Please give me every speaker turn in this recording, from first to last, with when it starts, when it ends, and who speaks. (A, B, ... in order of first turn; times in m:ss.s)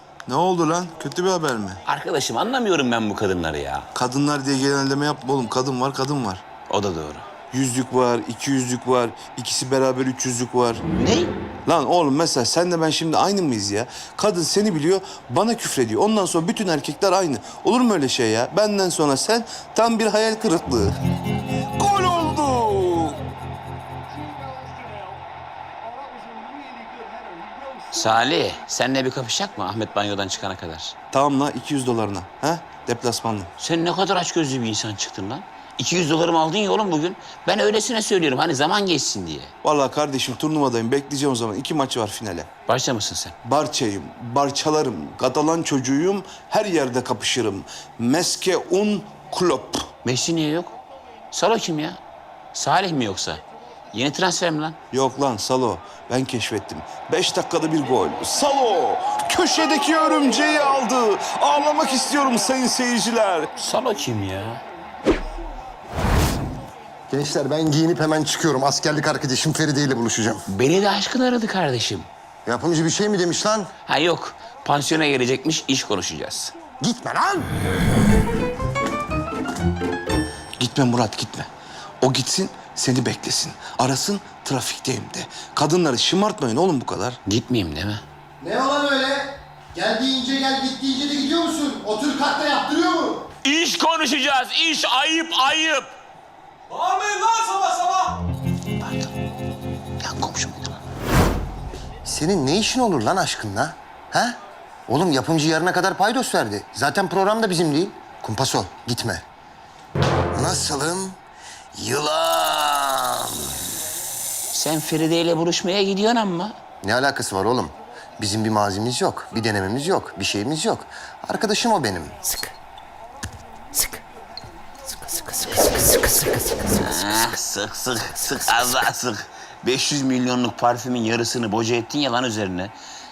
0:00.2-0:01.8 A
0:01.8-0:03.9 B
0:03.9-0:06.4 A
0:06.7-0:07.2 B
0:07.5-0:10.8 A
0:11.0-0:11.3 B
0:11.6-0:20.9 A
0:21.8-0:23.2 A
0:27.9-0:30.9 B
0:31.1-0:33.5 A
0:33.6-0:39.5 B
0:39.6-0:42.5 A
0:42.7-0:43.3 B
0:43.4-0:49.9 A
0:50.0-0:50.7 B
0:51.3-0:52.0 B
0:52.5-0:53.4 B
0:53.9-0:54.8 B
0:54.9-1:03.5 A
1:03.6-1:04.6 B
1:07.1-1:10.5 C
1:10.5-1:12.1 B
1:12.4-1:13.7 C
1:13.9-1:16.5 B
1:16.8-1:17.5 C
1:20.6-1:21.5 A
1:22.0-1:27.2 A
1:27.2-1:28.0 B
1:28.4-1:33.3 C
1:33.4-1:35.9 B
1:36.7-1:38.0 A
1:38.8-1:39.1 B
1:40.0-1:40.8 B
1:42.0-1:44.4 C
1:44.9-1:49.2 C
1:50.3-1:51.2 C
1:51.7-1:53.4 C
1:54.5-1:56.5 B
1:56.8-2:02.2 C
2:05.4-2:05.8 B
2:06.6-2:12.7 B